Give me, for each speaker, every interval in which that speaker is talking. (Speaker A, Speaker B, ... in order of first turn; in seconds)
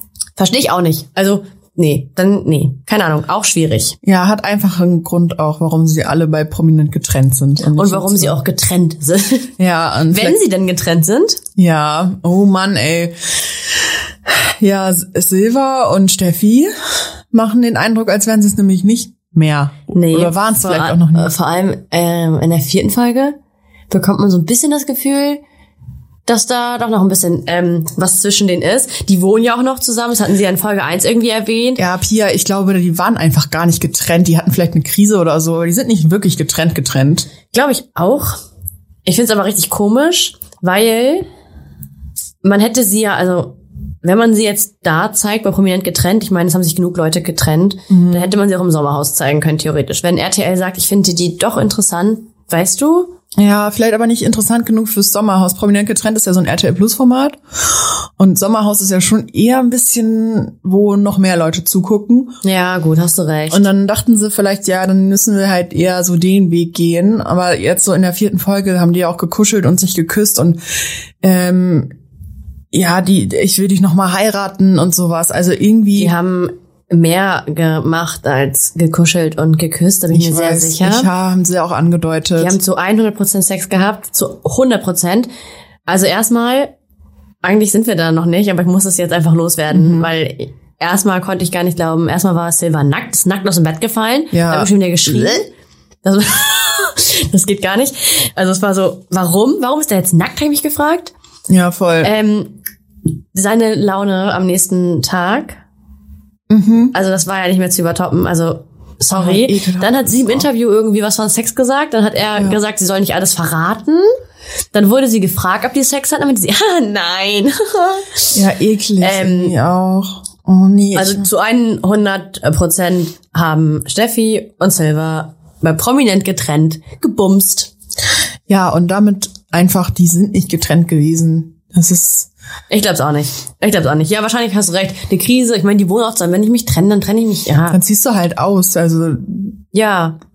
Speaker A: 0.4-4.0, 7.7-9.5, 10.1-11.4, 19.9-23.4, 23.9-25.4, 26.2-31.8, 37.5-38.4, 39.0-41.2, 42.4-53.1, 62.4-63.7, 76.0-81.1, 82.4-85.3, 85.9-86.7, 87.4-95.5, 96.0-101.1, 102.0-102.6, 103.3-105.6, 106.9-114.1, 114.7-118.3, 119.0-119.5, 120.9-127.7, 132.7-137.8, 139.7-140.2
Speaker B: 4.0-8.4, 9.6-10.4, 11.6-13.1, 14.3-16.7, 17.3-21.3, 31.8-37.3, 47.9-48.3, 53.4-62.4, 63.5-70.6, 71.2-71.9, 72.7-76.1, 80.1-82.6, 89.7-90.1, 94.3-95.4, 101.5-102.1, 106.5-106.9, 109.1-110.5, 118.3-121.3, 128.5-132.3, 137.7-139.5